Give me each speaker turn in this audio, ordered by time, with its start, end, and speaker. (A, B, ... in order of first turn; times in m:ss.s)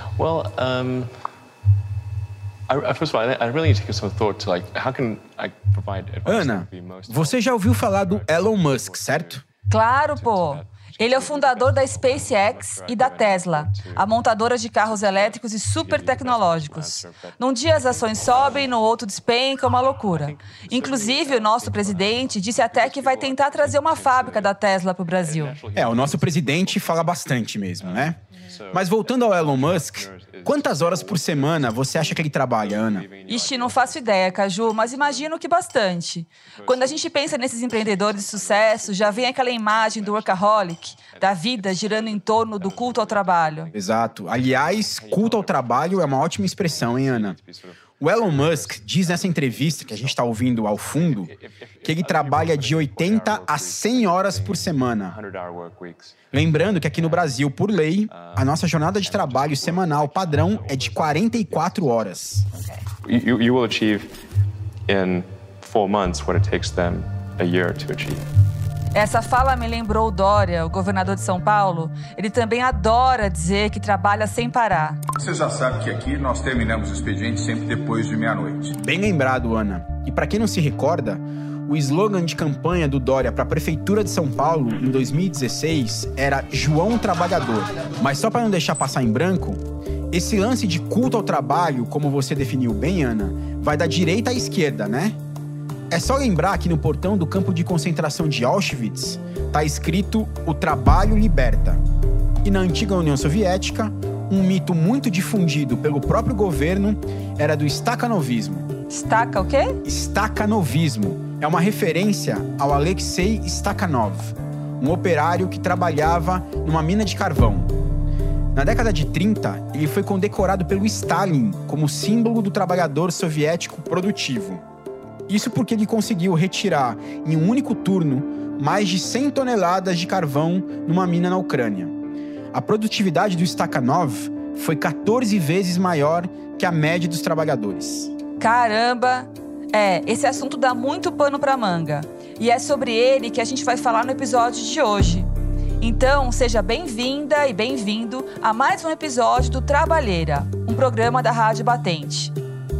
0:00.2-0:01.1 A
0:02.7-0:09.5 A
0:06.2-0:09.4 B
0:09.7-0:25.6 C
0:10.0-0:14.1 A
0:14.8-0:18.8 A
0:20.1-0:24.6 A
0:25.1-0:27.2 A
0:25.7-0:28.2 B
0:27.8-0:35.3 A
0:28.7-0:33.1 B
0:33.3-0:43.7 C
0:36.5-0:57.4 A
0:43.7-0:47.4 B
0:48.0-0:51.3 B
0:51.8-0:55.2 B
0:56.3-1:02.4 B
0:58.1-1:02.3 A
1:03.0-1:04.1 A
1:04.9-1:08.2 A
1:08.9-1:15.0 C
1:15.2-1:18.7 D
1:18.7-1:35.2 B
1:35.9-1:41.8 B
1:42.4-1:48.7 B
1:48.9-1:49.8 C
1:49.8-1:57.7 B
1:58.5-2:04.6 B
2:05.3-2:11.9 B
2:12.5-2:18.1 B
2:18.4-2:25.3 C
2:25.8-2:32.3 C